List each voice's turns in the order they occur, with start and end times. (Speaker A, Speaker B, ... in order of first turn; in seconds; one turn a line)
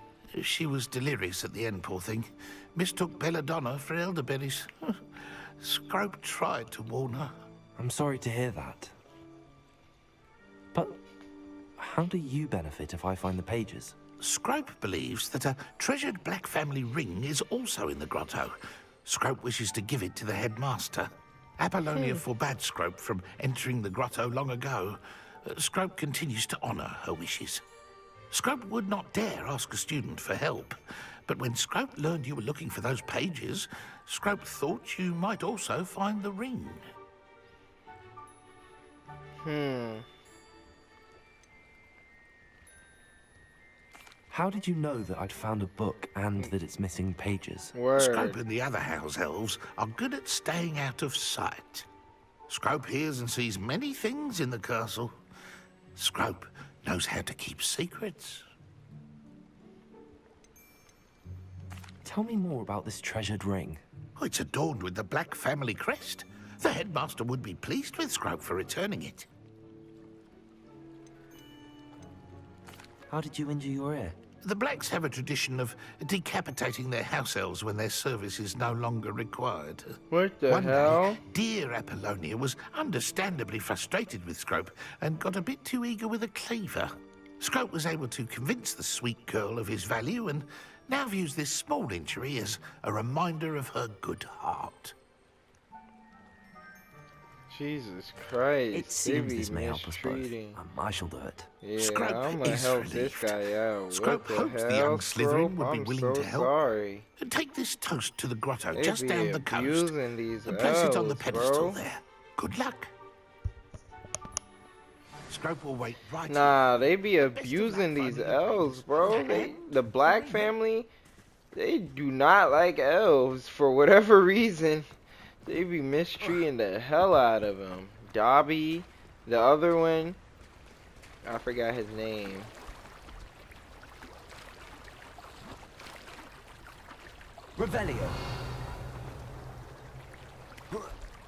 Speaker A: 0.3-5.0
Speaker A: 5.6-7.3
Speaker B: 7.8-8.9
Speaker B: 10.7-11.0
Speaker B: 11.8-14.0
Speaker A: 14.2-27.6
Speaker A: 28.3-36.9
Speaker C: 39.4-40.0
Speaker B: 44.3-47.7
Speaker C: 47.7-48.4
Speaker A: 47.9-51.9
Speaker A: 52.5-55.2
Speaker A: 55.9-58.5
Speaker B: 62.0-63.8
Speaker A: 64.2-69.3
Speaker B: 73.1-74.2
Speaker A: 74.4-94.9
Speaker C: 80.1-81.2
Speaker C: 97.5-100.6
Speaker B: 98.7-101.5
Speaker C: 101.6-107.1
Speaker A: 101.8-103.4
Speaker A: 103.9-106.5
Speaker A: 107.2-112.9
Speaker C: 108.7-111.8
Speaker A: 115.3-120.5
Speaker C: 116.3-120.9
Speaker C: 121.5-124.9
Speaker C: 125.4-130.2
Speaker C: 131.2-132.5
Speaker B: 137.6-138.2